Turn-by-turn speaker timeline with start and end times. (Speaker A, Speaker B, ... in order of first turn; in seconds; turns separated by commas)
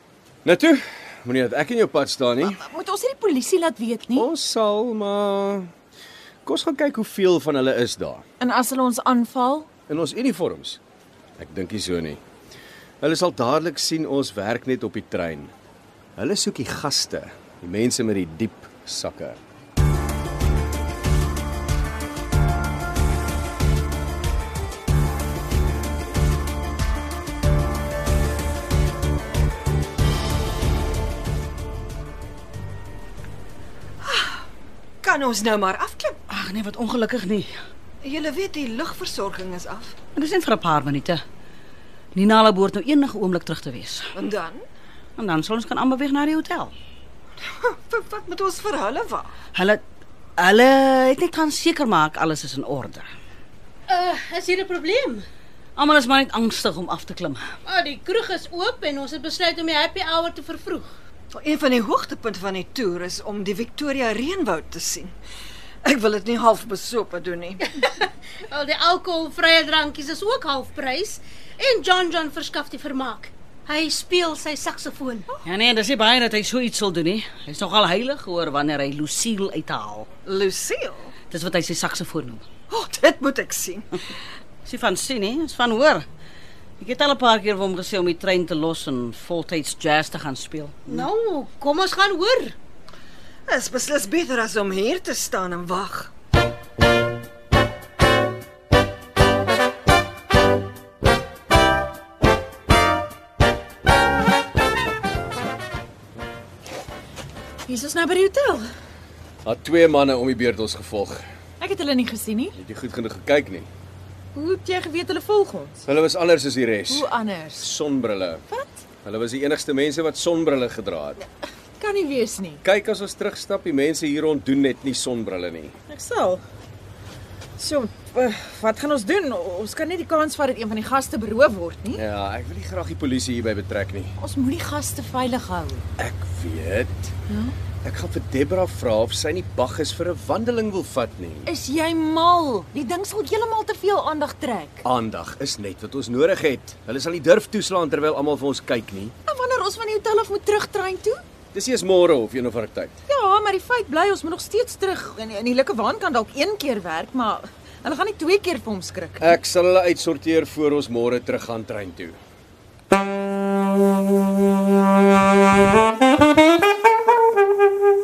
Speaker A: 0.5-2.6, Speaker B: 2.4-4.3, Speaker A: 4.1-5.7, Speaker A: 6.5-8.2, Speaker B: 8.4-9.7, Speaker A: 9.9-10.8, Speaker A: 11.4-12.2, Speaker A: 13.0-15.5, Speaker A: 16.2-19.4, Speaker C: 34.0-34.5, Speaker C: 35.0-36.2, Speaker D: 36.3-37.5, Speaker C: 38.0-40.0, Speaker D: 40.1-41.2, Speaker D: 42.1-44.1, Speaker C: 44.2-44.6, Speaker D: 45.2-46.7, Speaker C: 47.4-49.3, Speaker D: 49.5-49.8, Speaker D: 50.4-53.0, Speaker E: 53.9-55.2, Speaker D: 55.8-57.4, Speaker E: 57.7-60.9, Speaker C: 61.3-65.1, Speaker C: 65.8-67.7, Speaker E: 67.7-75.3, Speaker D: 75.5-80.1, Speaker C: 80.3-81.1, Speaker D: 81.3-82.5, Speaker C: 82.7-83.8, Speaker D: 84.7-86.0, Speaker D: 86.8-91.1, Speaker E: 90.9-92.5, Speaker C: 93.5-96.1, Speaker B: 107.7-108.7, Speaker A: 109.5-111.2, Speaker B: 111.6-112.6, Speaker A: 112.6-113.7, Speaker B: 114.3-115.8, Speaker A: 115.9-118.4, Speaker B: 116.9-117.7, Speaker B: 118.5-118.8, Speaker A: 119.0-121.2, Speaker B: 121.8-122.6, Speaker A: 122.6-125.7, Speaker B: 125.9-126.4, Speaker B: 127.6-132.0, Speaker A: 131.9-134.2, Speaker B: 134.2-135.8, Speaker A: 136.0-137.1, Speaker B: 137.3-137.6, Speaker A: 137.8-141.5, Speaker B: 141.5-144.8, Speaker A: 144.8-149.1, Speaker B: 149.3-151.2, Speaker A: 151.5-153.0, Speaker B: 153.1-159.3, Speaker A: 159.2-162.2